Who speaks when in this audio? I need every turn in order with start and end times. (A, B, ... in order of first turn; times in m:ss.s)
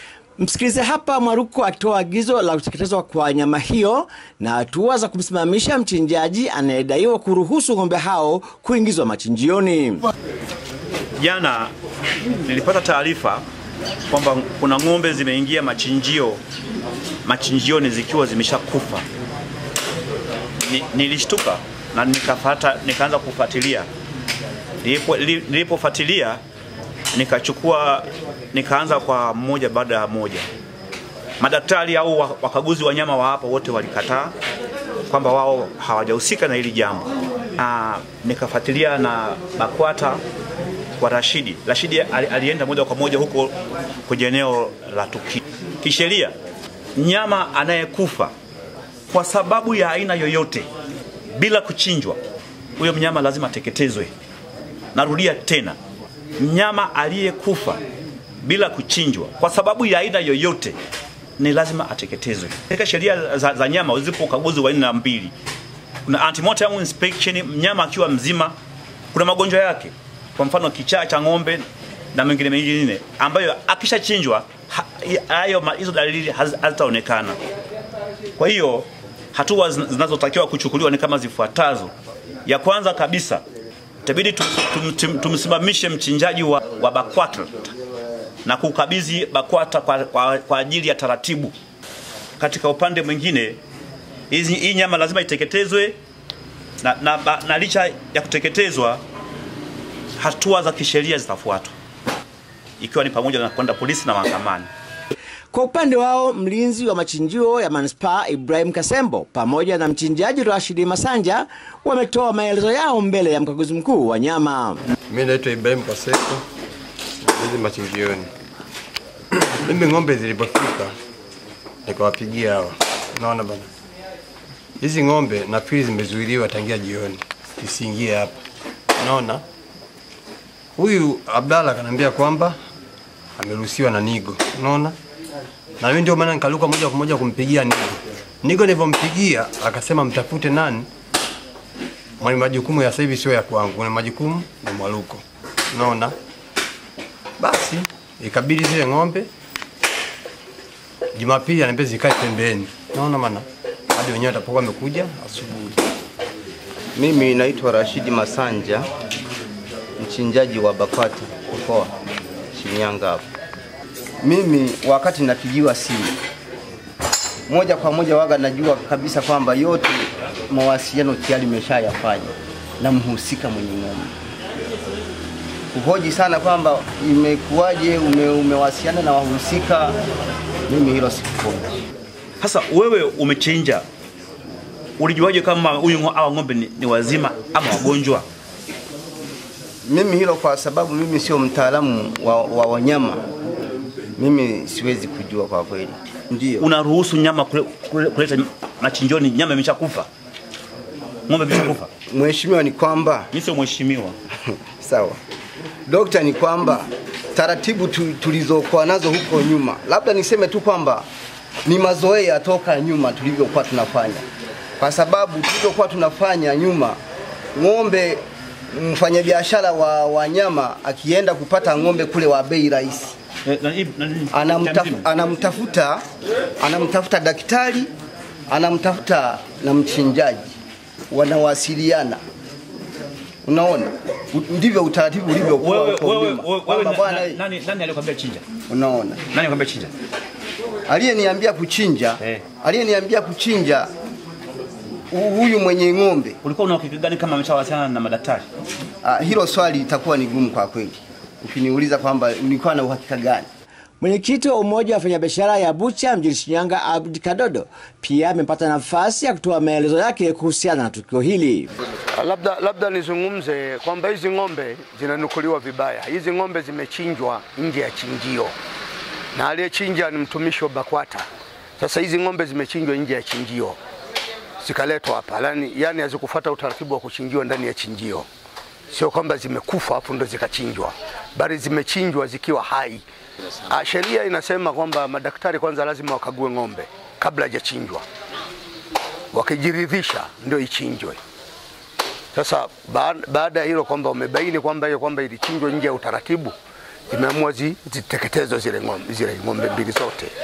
0:00.4-0:10.1 A
0:11.2-0:11.7 B
0:12.4-0:13.4 B
0:14.1-0:16.4 B
0:17.2-0:19.0 B
0:20.6-0:23.9 B
0:24.8-0:26.4 B
0:27.1-0:30.5 B
0:31.4-0:34.4 B
0:35.1-0:40.2 B
0:41.0-0:43.5 B
0:44.1-0:46.3 B
0:47.0-0:48.3 B
0:49.1-0:50.7 B
0:51.3-0:52.2 B
0:52.8-0:54.1 B
0:55.0-0:55.8 B
0:56.4-0:57.8 B
0:58.4-1:00.8 B
1:01.4-1:05.3 B
1:06.1-1:08.6 B
1:09.1-1:17.4 B
1:18.4-1:21.9 B
1:22.5-1:23.4 B
1:24.0-1:27.7 B
1:28.4-1:31.5 B
1:32.4-1:33.6 B
1:34.3-1:36.0 B
1:36.8-1:39.0 B
1:40.2-1:41.7 B
1:42.8-1:44.7 B
1:45.5-1:54.8 A
1:55.1-1:56.4 C
1:57.2-1:58.3 C
1:59.4-2:00.9 C
2:01.9-2:03.7 C
2:04.8-2:08.3 C
2:09.0-2:09.4 C
2:10.8-2:12.6 C
2:13.4-2:15.0 C
2:15.8-2:20.9 C
2:22.2-2:25.2 C
2:25.7-2:26.2 C
2:27.4-2:29.3 C
2:31.2-2:35.8 C
2:37.0-2:38.9 D
2:40.0-2:41.9 D
2:42.5-2:43.2 D
2:44.2-2:46.2 D
2:47.5-2:54.1 D
2:55.7-3:00.0 D
3:00.7-3:01.8 D
3:02.4-3:03.8 B
3:05.0-3:08.2 B
3:09.8-3:13.2 D
3:14.2-3:16.7 D
3:16.6-3:20.1 B
3:21.3-3:21.9 B
3:22.1-3:23.3 D
3:23.3-3:24.2 B
3:24.7-3:25.2 D
3:25.9-3:31.1 D
3:31.6-3:34.3 D
3:34.8-3:37.0 D
3:37.6-3:43.2 D
3:43.4-3:45.0 B
3:44.3-3:46.0 D
3:46.6-3:47.9 D
3:48.5-3:50.5 D
3:51.1-3:52.2 D
3:53.4-3:57.4 D
3:55.5-3:58.4 B
3:58.7-3:59.2 D
3:59.3-3:59.9 B
4:00.9-4:03.9 D
4:05.1-4:06.4 D
4:06.4-4:08.5 B
4:09.0-4:13.5 D
4:14.0-4:21.7 A
4:22.1-4:28.6 E
4:29.3-4:31.3 E
4:31.8-4:33.8 E
4:34.6-4:38.3 E
4:38.9-4:43.0 E
4:43.7-4:48.0 E
4:49.3-4:51.2 E
4:52.3-4:56.5 E
4:57.1-5:00.3 E